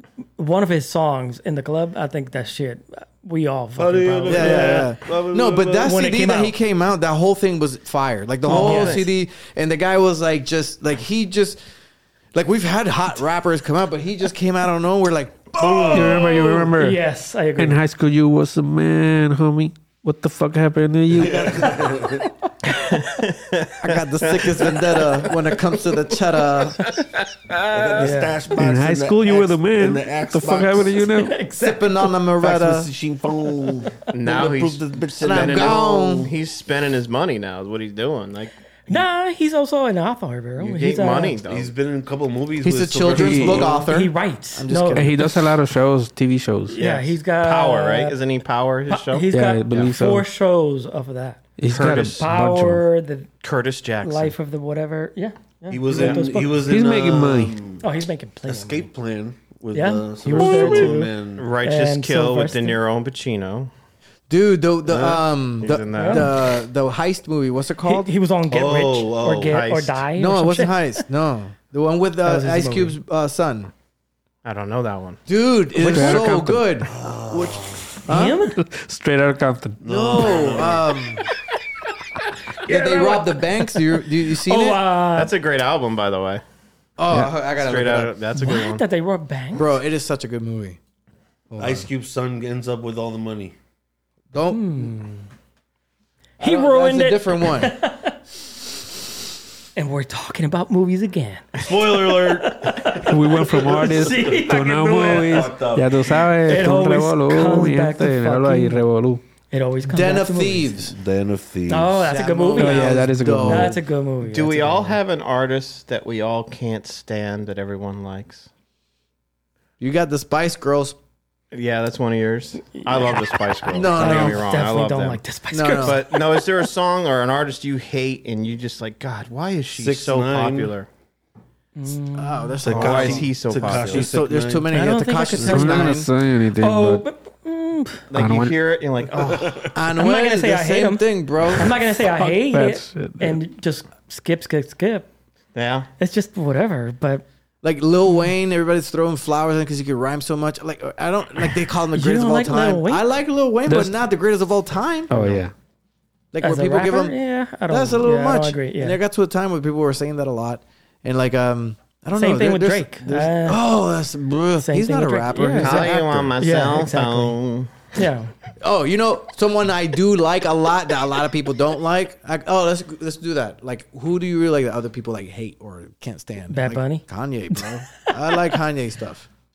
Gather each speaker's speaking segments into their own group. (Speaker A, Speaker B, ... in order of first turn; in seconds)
Speaker A: 0.4-4.9, 5.8-6.5, 8.4-9.1, 16.7-17.8, 22.7-23.1, 28.0-28.4, 31.1-32.1, 38.9-41.4, 43.7-45.1, 46.7-48.2, 48.9-53.3, 54.0-56.6, 57.8-58.9, 59.7-61.1, 61.6-62.8, 65.9-66.3, 67.8-71.0, 72.2-73.0, 78.1-78.6, 82.5-85.3, 88.3-89.8, 94.5-95.3, 96.4-98.2, 99.8-105.5, 106.4-108.8, 109.5-110.7, 111.7-115.0, 122.8-123.3, 123.8-126.5, 131.8-132.6, 134.7-138.1, 139.9-145.1, 146.0-147.2, 151.9-153.1, 156.4-159.0, 162.2-163.6, 164.7-167.4, 167.9-168.3, 176.5-177.7
Speaker B: 3.8-6.0, 15.5-16.7, 21.1-22.3, 27.7-31.0, 32.4-36.3, 41.5-43.9, 55.7-57.9, 58.5-61.5, 64.9-65.2, 68.5-69.6, 75.8-76.2, 76.8-78.0, 79.8-81.0, 91.6-93.5, 101.5-104.4, 105.2-106.3, 110.9-112.0, 129.7-130.7, 132.6-134.6
Speaker C: 4.3-11.6, 12.3-16.1, 23.8-26.8, 31.6-32.9, 35.2-36.3, 42.6-45.5, 64.3-68.1, 70.2-73.7, 75.3-78.4, 79.8-81.2, 82.6-84.8, 87.0-88.2, 89.5-90.8, 91.5-91.9, 94.3-94.9, 96.4-97.7, 109.8-110.9, 112.0-113.8, 119.8-121.0, 123.7-124.5, 125.5-126.0, 132.1-136.1, 139.7-141.8, 147.6-155.4, 156.3-157.2, 157.7-166.4, 168.6-179.3
Speaker D: 8.4-9.1, 22.9-25.3, 27.1-28.0, 34.1-38.5, 40.6-41.7, 46.8-49.8, 51.7-52.2, 53.4-54.3, 55.9-56.2, 60.5-63.7, 65.6-66.3, 69.4-70.0, 74.4-75.2, 85.1-86.4, 87.4-88.8, 114.2-118.5, 121.5-125.2, 125.7-130.9, 132.7-134.2, 138.1-139.7, 145.5-145.9, 165.6-167.9
Speaker E: 15.9-17.0, 17.6-21.8, 28.6-31.4, 43.1-43.7, 44.9-46.8, 49.3-50.2, 51.6-52.8, 56.6-57.6, 75.8-76.8, 78.6-79.8, 102.9-109.2, 112.6-113.8, 135.4-137.0, 138.1-138.6, 142.2-143.4, 153.7-153.9, 155.1-155.5